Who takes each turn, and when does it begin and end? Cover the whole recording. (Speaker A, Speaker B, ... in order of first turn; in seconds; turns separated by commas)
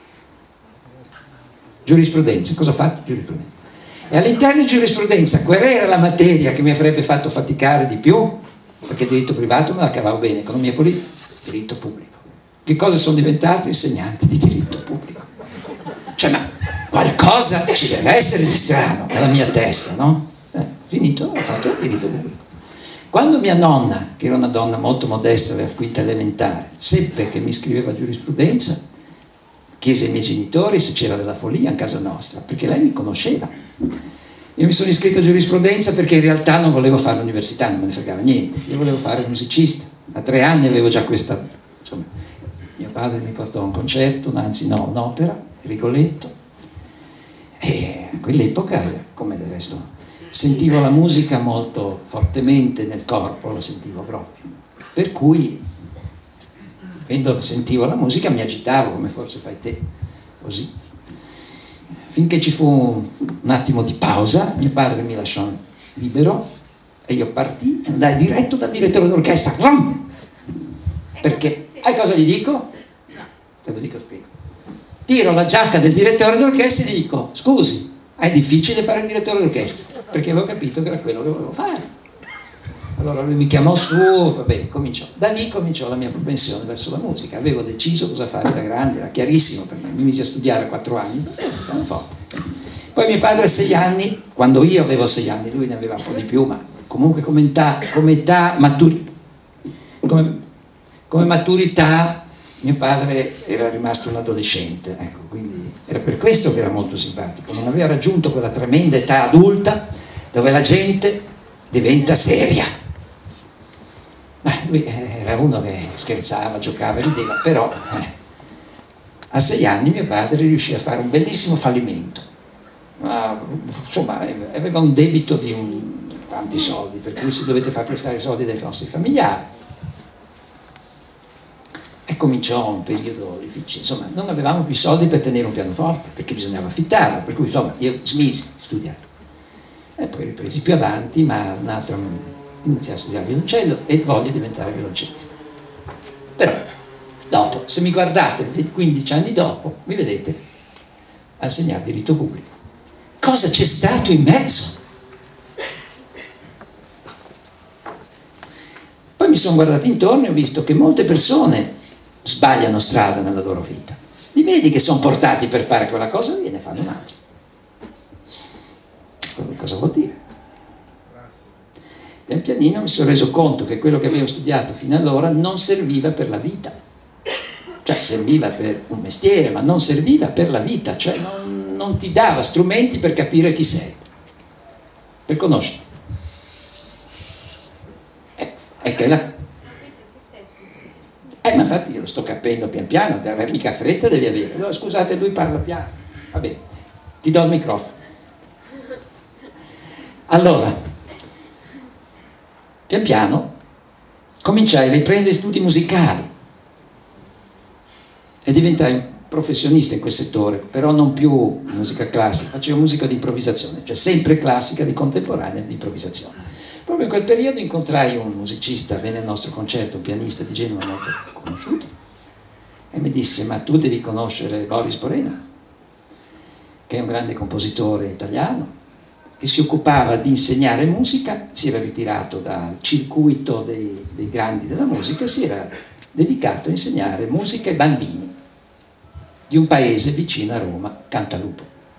Speaker A: 1.9-3.5, Speaker A: 4.1-15.3, Speaker A: 16.2-22.4, Speaker A: 23.1-28.8, Speaker A: 29.8-33.5, Speaker A: 34.6-42.1, Speaker A: 42.8-46.3, Speaker A: 47.6-55.6, Speaker A: 57.0-59.8, Speaker A: 60.4-60.7, Speaker A: 62.1-66.4, Speaker A: 67.1-70.0, Speaker A: 71.2-72.7, Speaker A: 73.6-74.3, Speaker A: 75.1-81.9, Speaker A: 83.0-92.2, Speaker A: 93.0-99.1, Speaker A: 100.0-100.4, Speaker A: 101.1-112.7, Speaker A: 114.4-118.1, Speaker A: 119.3-122.3, Speaker A: 123.0-129.5, Speaker A: 132.1-139.0, Speaker A: 140.0-145.4, Speaker A: 146.4-146.7, Speaker A: 147.3-150.4, Speaker A: 151.4-152.5, Speaker A: 153.2-154.8, Speaker A: 159.2-161.7, Speaker A: 162.2-167.2, Speaker A: 169.4-170.2, Speaker A: 172.3-176.7, Speaker A: 177.8-184.0, Speaker A: 185.3-185.9, Speaker A: 188.4-189.3, Speaker A: 191.4-196.6, Speaker A: 197.2-198.0, Speaker A: 200.3-200.7, Speaker A: 202.9-203.5, Speaker A: 204.4-206.3, Speaker A: 208.4-216.3, Speaker A: 216.9-221.9, Speaker A: 222.9-225.4, Speaker A: 226.9-228.7, Speaker A: 229.4-238.3, Speaker A: 239.5-241.7